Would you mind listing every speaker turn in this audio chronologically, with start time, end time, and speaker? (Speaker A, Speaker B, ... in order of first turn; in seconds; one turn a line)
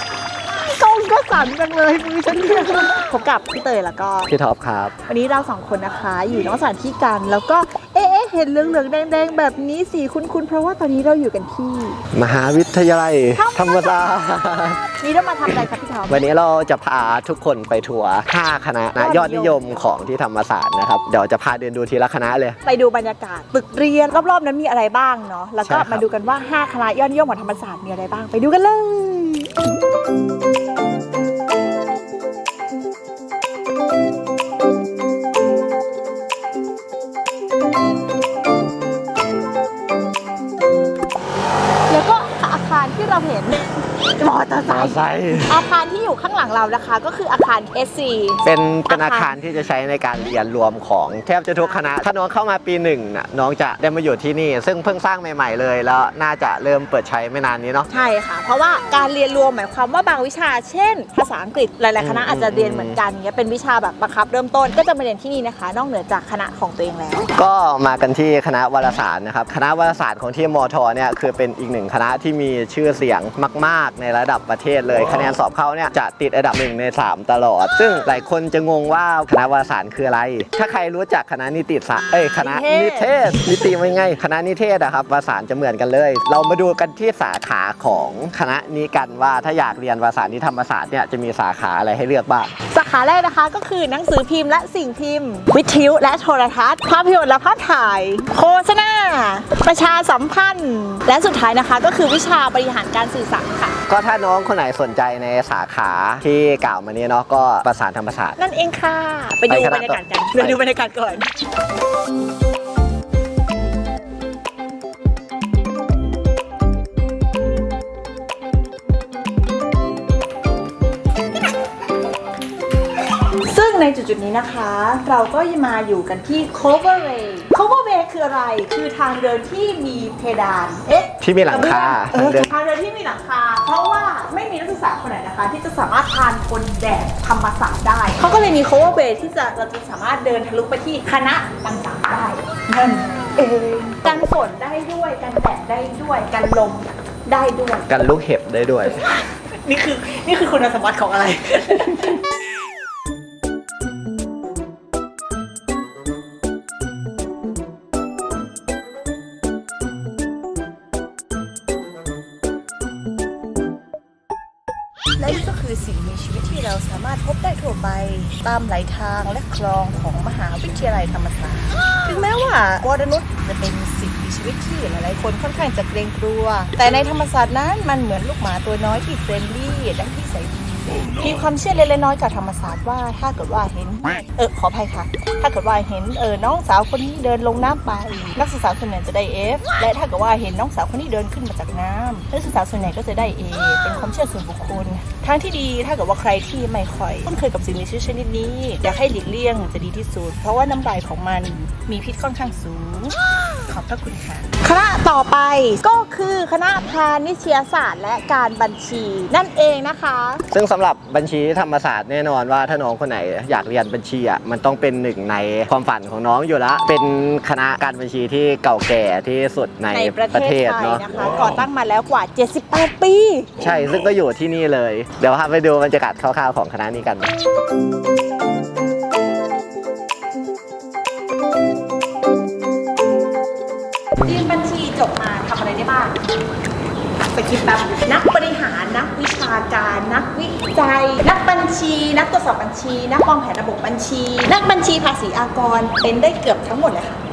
Speaker A: 0.5-4.3
Speaker B: 4.3-4.9
Speaker A: 5.1-12.0
Speaker B: 12.1-14.8
Speaker A: 13.3-14.2
Speaker A: 14.9-16.2
Speaker B: 15.5-22.6
Speaker A: 18.9-19.9
Speaker A: 22.6-29.5
Speaker B: 25.6-26.0
Speaker A: 41.9-49.4
Speaker B: 44.7-45.6
Speaker B: 48.4-57.9
Speaker A: 51.5-51.9
Speaker A: 57.9-67.3
Speaker B: 62.0-63.0
Speaker B: 67.3-92.5
Speaker A: 82.4-83.1
Speaker A: 92.7-103.8
Speaker B: 103.9-108.4
Speaker A: 108.4-111.3
Speaker B: 109.5-110.6
Speaker A: 123.5-147.9
Speaker B: 131.2-132.5
Speaker B: 147.9-149.0
Speaker A: 148.8-152.2
Speaker A: 165.2-210.4
Speaker B: 210.5-221.0
Speaker A: 219.9-223.5
Speaker B: 223.6-227.3
Speaker A: 234.2-236.2
Speaker A: 237.2-247.2